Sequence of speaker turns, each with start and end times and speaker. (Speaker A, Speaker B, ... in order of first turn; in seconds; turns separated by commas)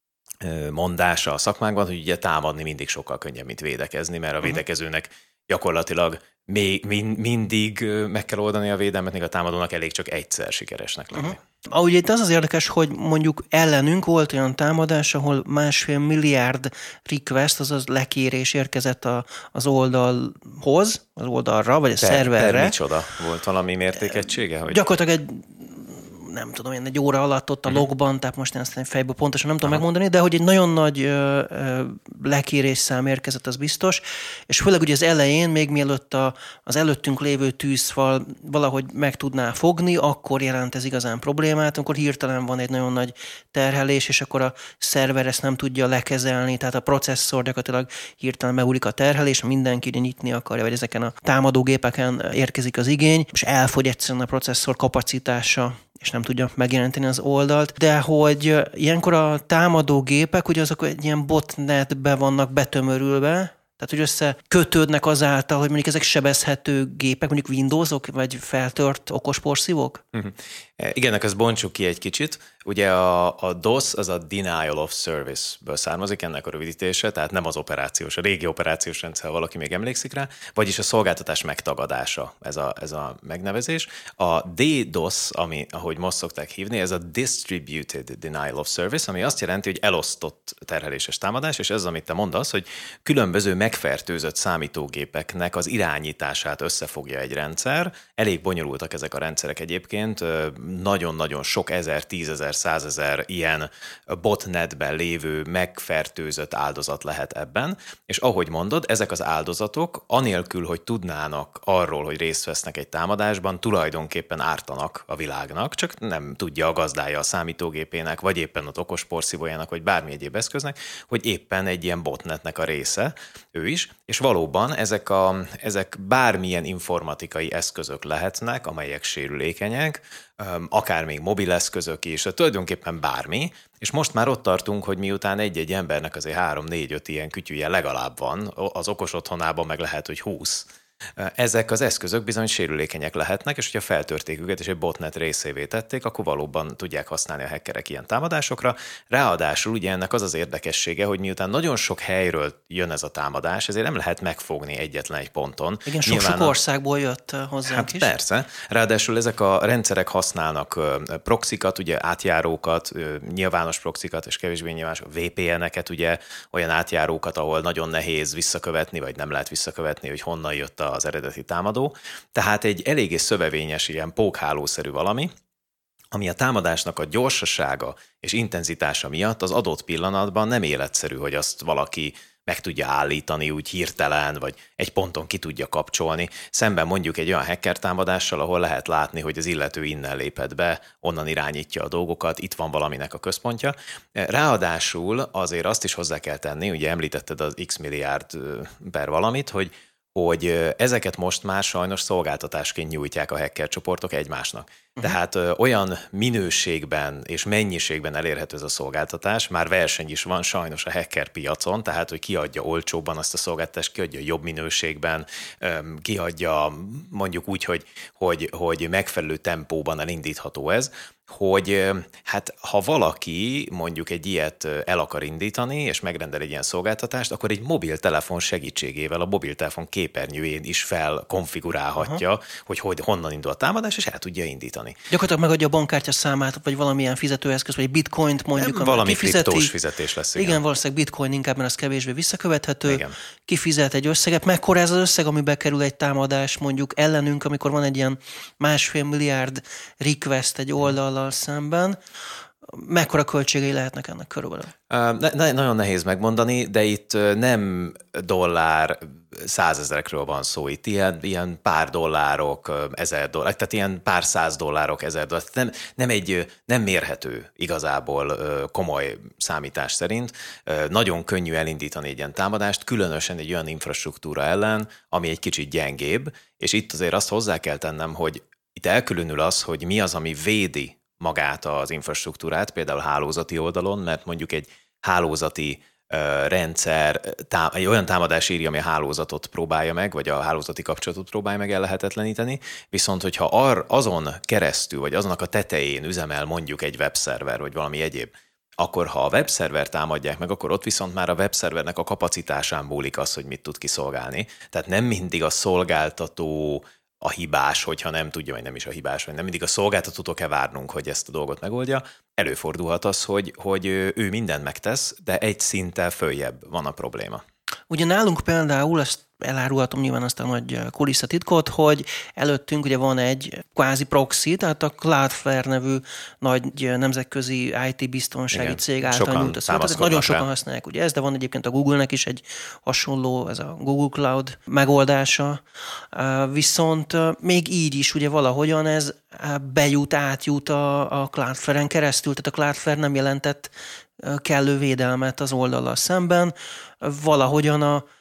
Speaker A: 0.4-11.4, Speaker B: 11.1-22.8, Speaker A: 22.0-24.9, Speaker B: 24.7-70.0, Speaker A: 70.1-156.6, Speaker B: 155.9-158.1, Speaker A: 157.7-175.3, Speaker A: 176.1-235.0, Speaker B: 235.1-239.7, Speaker A: 238.6-240.6, Speaker B: 240.4-252.0, Speaker A: 242.9-243.2, Speaker B: 252.7-254.7, Speaker A: 254.9-317.4, Speaker B: 317.9-348.0, Speaker A: 328.5-330.4